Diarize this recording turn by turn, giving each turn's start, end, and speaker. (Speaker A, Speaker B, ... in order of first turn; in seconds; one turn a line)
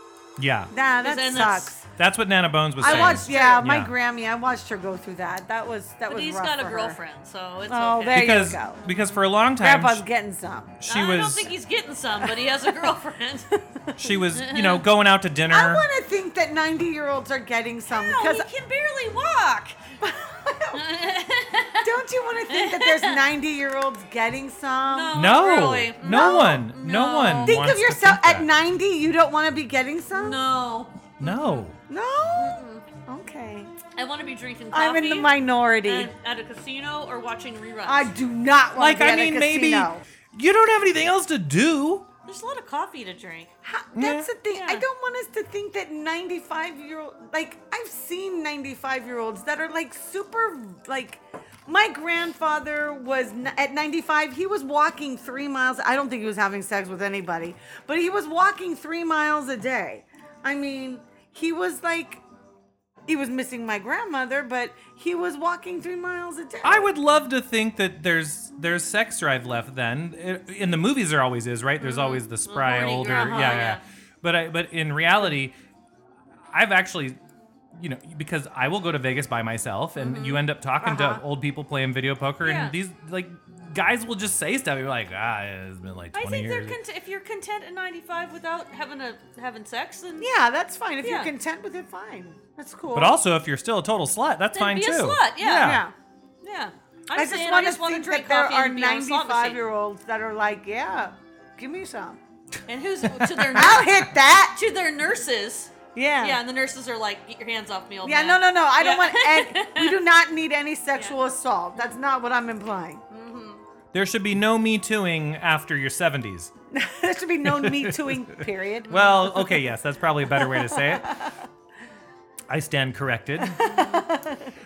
Speaker A: 0.4-0.7
Speaker B: 0.7-1.9
Speaker C: 1.0-1.7
Speaker A: 2.0-3.9
Speaker C: 2.8-3.6
Speaker B: 2.8-7.0
Speaker C: 6.1-9.1
Speaker B: 7.7-8.8
Speaker A: 8.1-10.0
Speaker B: 9.6-10.8
Speaker A: 10.8-11.5
Speaker C: 10.8-13.6
Speaker B: 12.2-12.9
Speaker A: 14.0-15.8
Speaker C: 14.3-14.8
Speaker B: 15.5-18.5
Speaker C: 17.9-19.8
Speaker B: 20.0-20.8
Speaker C: 20.7-23.2
Speaker B: 21.8-25.2
Speaker C: 24.9-27.6
Speaker A: 25.1-28.5
Speaker B: 26.0-26.7
Speaker B: 27.4-30.4
Speaker C: 30.1-31.7
Speaker A: 31.2-31.8
Speaker B: 31.9-33.7
Speaker C: 32.3-32.9
Speaker C: 34.0-38.1
Speaker B: 34.7-36.1
Speaker B: 37.8-40.0
Speaker A: 38.7-42.1
Speaker C: 42.2-43.5
Speaker B: 43.6-62.2
Speaker A: 43.9-44.3
Speaker C: 44.5-44.8
Speaker B: 63.1-66.9
Speaker A: 66.6-75.5
Speaker C: 71.8-73.8
Speaker A: 76.5-77.2
Speaker A: 77.7-86.8
Speaker C: 80.0-80.4
Speaker B: 80.8-81.2
Speaker C: 82.4-82.8
Speaker C: 86.1-90.3
Speaker B: 90.2-93.2
Speaker C: 91.0-91.3
Speaker A: 92.9-95.8
Speaker C: 94.5-95.8
Speaker B: 95.6-95.9
Speaker C: 96.4-99.6
Speaker B: 97.1-102.2
Speaker C: 102.7-110.0
Speaker B: 103.5-104.5
Speaker B: 105.9-106.4
Speaker B: 108.0-113.0
Speaker C: 113.1-113.6
Speaker A: 113.9-116.5
Speaker B: 116.7-119.6
Speaker A: 117.4-121.1
Speaker C: 118.9-119.3
Speaker B: 120.3-121.4
Speaker A: 122.5-123.7
Speaker B: 123.4-124.5
Speaker C: 123.5-124.1